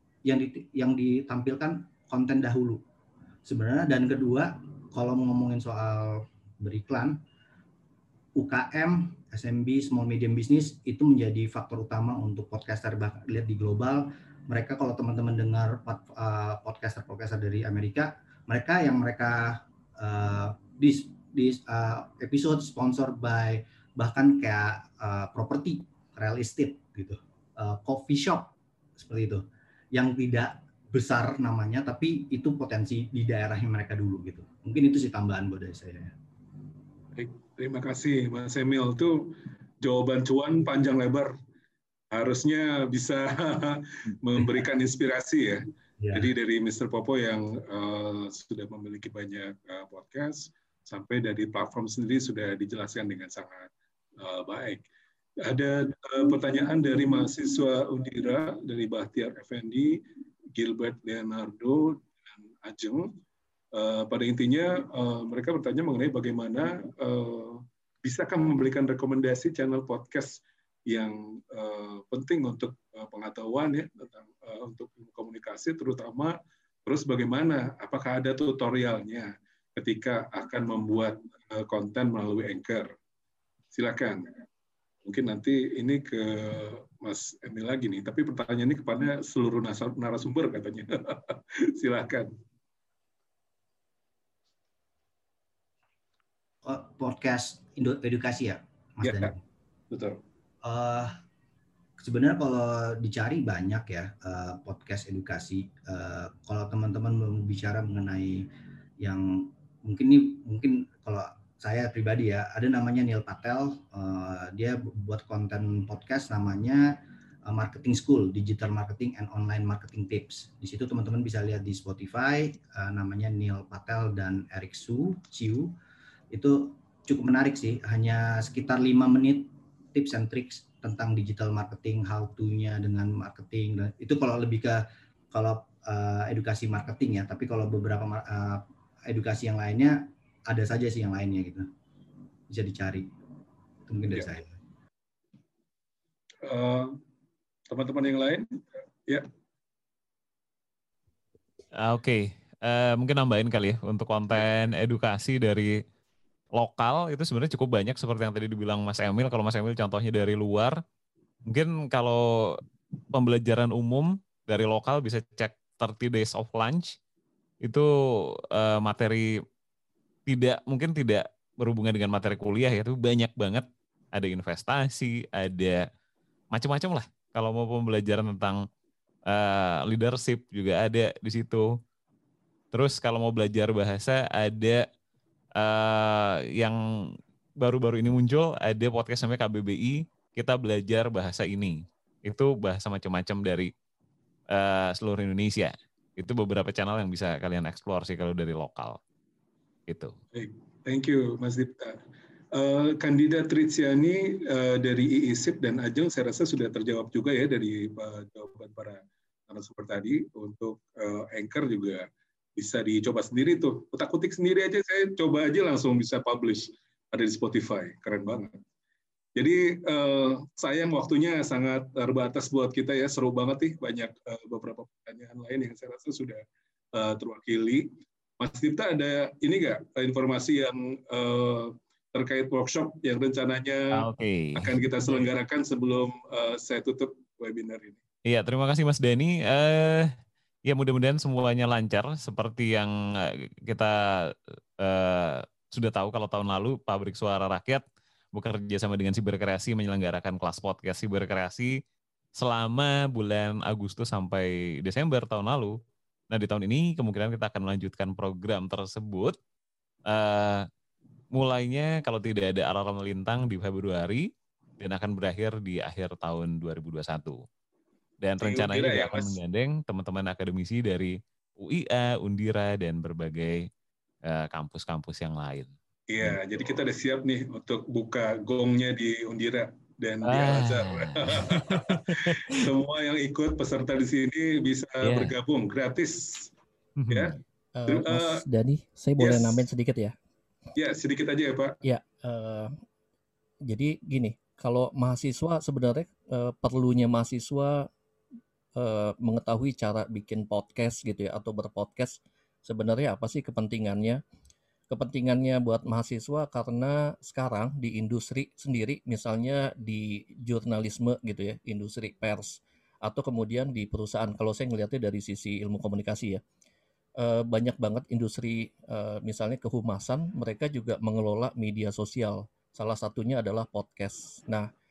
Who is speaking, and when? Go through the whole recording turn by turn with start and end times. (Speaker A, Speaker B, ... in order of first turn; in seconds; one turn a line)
Speaker A: 0.2-2.8
Speaker A: 3.4-7.2
Speaker A: 8.3-36.1
Speaker B: 37.1-41.3
Speaker B: 42.1-54.9
Speaker A: 46.0-46.3
Speaker B: 55.4-60.0
Speaker B: 60.5-63.1
Speaker B: 63.7-82.9
Speaker B: 83.7-84.4
Speaker B: 85.0-92.3
Speaker A: 96.6-99.4
Speaker B: 99.0-99.3
Speaker B: 99.9-100.2
Speaker A: 100.6-101.1
Speaker A: 102.0-125.7
Speaker A: 126.3-141.7
Speaker A: 142.5-143.1
Speaker A: 143.9-144.5
Speaker B: 146.4-147.0
Speaker B: 147.7-149.3
Speaker C: 151.8-155.8
Speaker C: 156.5-160.8
Speaker C: 161.4-162.6
Speaker C: 163.1-166.9
Speaker C: 167.6-169.3
Speaker C: 170.3-175.8
Speaker C: 176.5-178.7
Speaker C: 179.3-181.7
Speaker C: 182.7-184.9
Speaker C: 185.6-186.8
Speaker C: 187.6-193.7
Speaker C: 194.5-199.0
Speaker C: 199.9-200.1
Speaker B: 200.3-218.6
Speaker B: 219.3-226.4
Speaker B: 226.9-238.0
Speaker C: 233.9-235.3
Speaker C: 238.2-240.1
Speaker C: 240.7-251.8
Speaker C: 252.3-255.8
Speaker C: 256.3-259.4
Speaker C: 260.1-260.6
Speaker C: 261.3-264.3
Speaker C: 264.8-267.4
Speaker C: 268.2-273.7
Speaker B: 268.4-269.4
Speaker C: 274.2-275.7
Speaker B: 276.1-286.5
Speaker C: 280.2-282.4
Speaker C: 285.0-285.3
Speaker C: 287.0-287.3
Speaker B: 287.1-288.4
Speaker D: 287.7-290.1
Speaker B: 289.2-289.7
Speaker B: 290.8-291.8
Speaker D: 291.8-292.7
Speaker D: 293.7-297.9
Speaker D: 298.8-304.2
Speaker D: 304.9-316.4
Speaker D: 317.2-324.7